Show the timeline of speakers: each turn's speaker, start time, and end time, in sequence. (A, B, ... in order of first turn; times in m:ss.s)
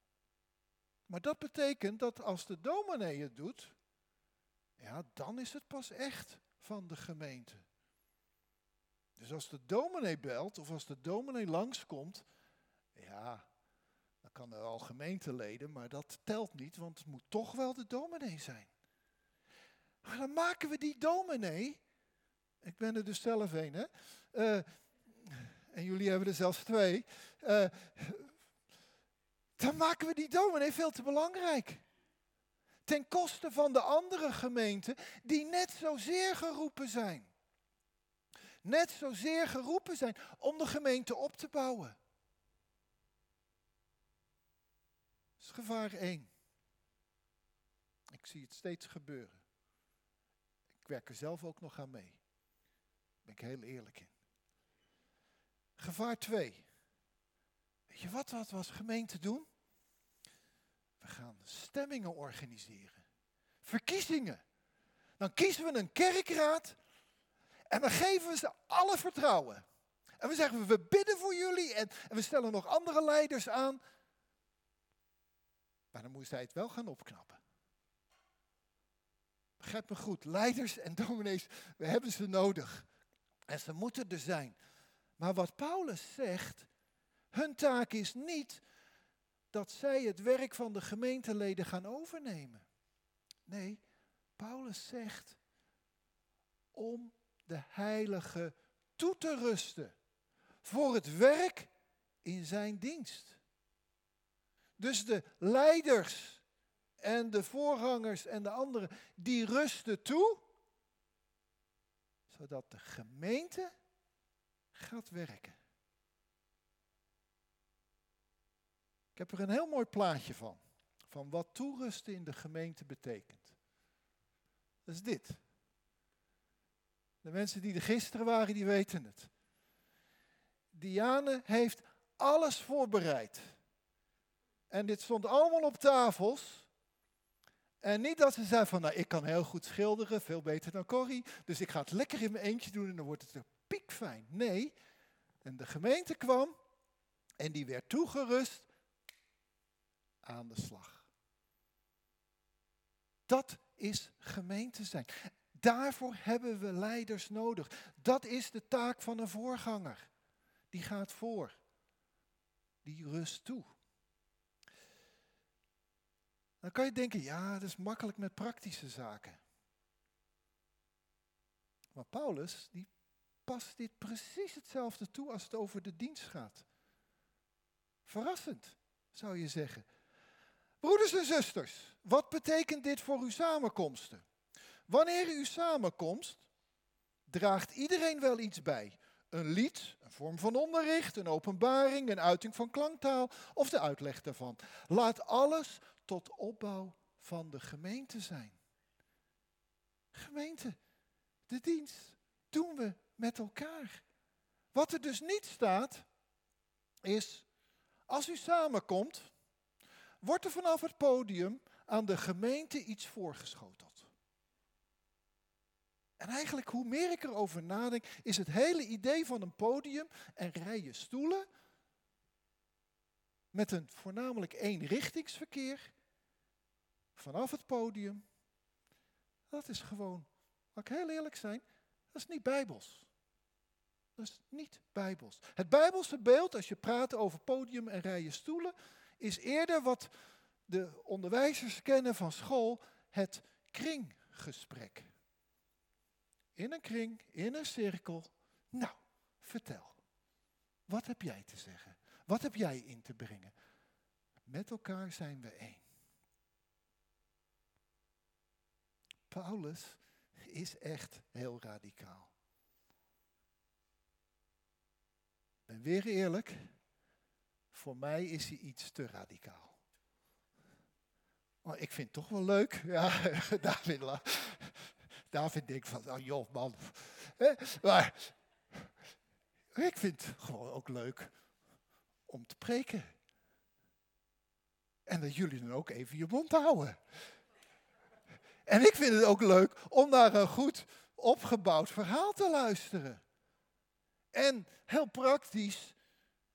0:01.1-0:03.8 A
0:04.8-0:07.6 A
0:09.2-0:12.2 A
0:13.0-0:13.5 A
0:14.2-0:18.7 A
0:20.0-0:21.8 A
0:22.6-0:24.7 A
0:25.2-0:28.3 A
0:29.6-0:31.8 A
0:32.9-0:37.3 A
0:38.6-0:42.0 A
0:45.4-0:46.3 A
0:48.1-0:49.4 A
0:50.8-0:52.2 A
0:53.2-0:54.1 A
0:55.8-0:56.7 A
0:57.9-0:59.5 A
1:01.0-1:03.0 A
1:03.6-1:04.4 A
1:05.2-1:06.8 A
1:07.7-1:09.6 A
1:10.2-1:13.8 A
1:15.9-1:17.4 A
1:19.6-1:22.9 A
1:23.5-1:24.6 A
1:25.2-1:26.7 A
1:27.3-1:28.6 A
1:29.5-1:32.6 A
1:33.5-1:33.8 A
1:34.4-1:35.4 A
1:36.7-1:40.0 A
1:40.6-1:41.7 A
1:42.2-1:43.4 A
1:44.8-1:46.4 A
1:47.0-1:50.4 A
1:52.3-1:53.7 A
1:54.7-1:55.6 A
1:59.2-2:03.6 A
2:04.9-2:05.4 A
2:07.2-2:09.3 A
2:10.7-2:13.5 A
2:14.7-2:16.7 A
2:17.8-2:24.8 A
2:25.4-2:26.6 A
2:27.4-2:28.7 A
2:30.2-2:31.1 A
2:33.3-2:40.1 A
2:40.7-2:41.6 A
2:42.8-2:43.7 A
2:46.6-2:49.4 A
2:51.9-2:52.9 A
2:53.4-2:56.7 A
2:58.0-2:59.9 A
3:00.8-3:04.2 A
3:04.9-3:06.5 A
3:07.3-3:18.6 A
3:20.1-3:20.8 A
3:21.5-3:24.0 A
3:24.7-3:26.1 A
3:27.0-3:27.5 A
3:28.1-3:29.3 A
3:30.2-3:34.1 A
3:36.2-3:41.5 A
3:43.5-3:45.9 A
3:47.2-3:48.2 A
3:49.5-3:53.1 A
3:54.2-4:00.1 A
4:00.7-4:05.1 A
4:06.6-4:10.0 A
4:10.9-4:13.6 A
4:14.5-4:15.8 A
4:19.3-4:22.3 A
4:25.7-4:26.7 A
4:27.7-4:29.8 A
4:31.6-4:38.9 A
4:39.7-4:41.3 A
4:42.3-4:43.1 A
4:45.1-4:47.0 A
4:48.7-4:53.2 A
4:54.3-4:56.0 A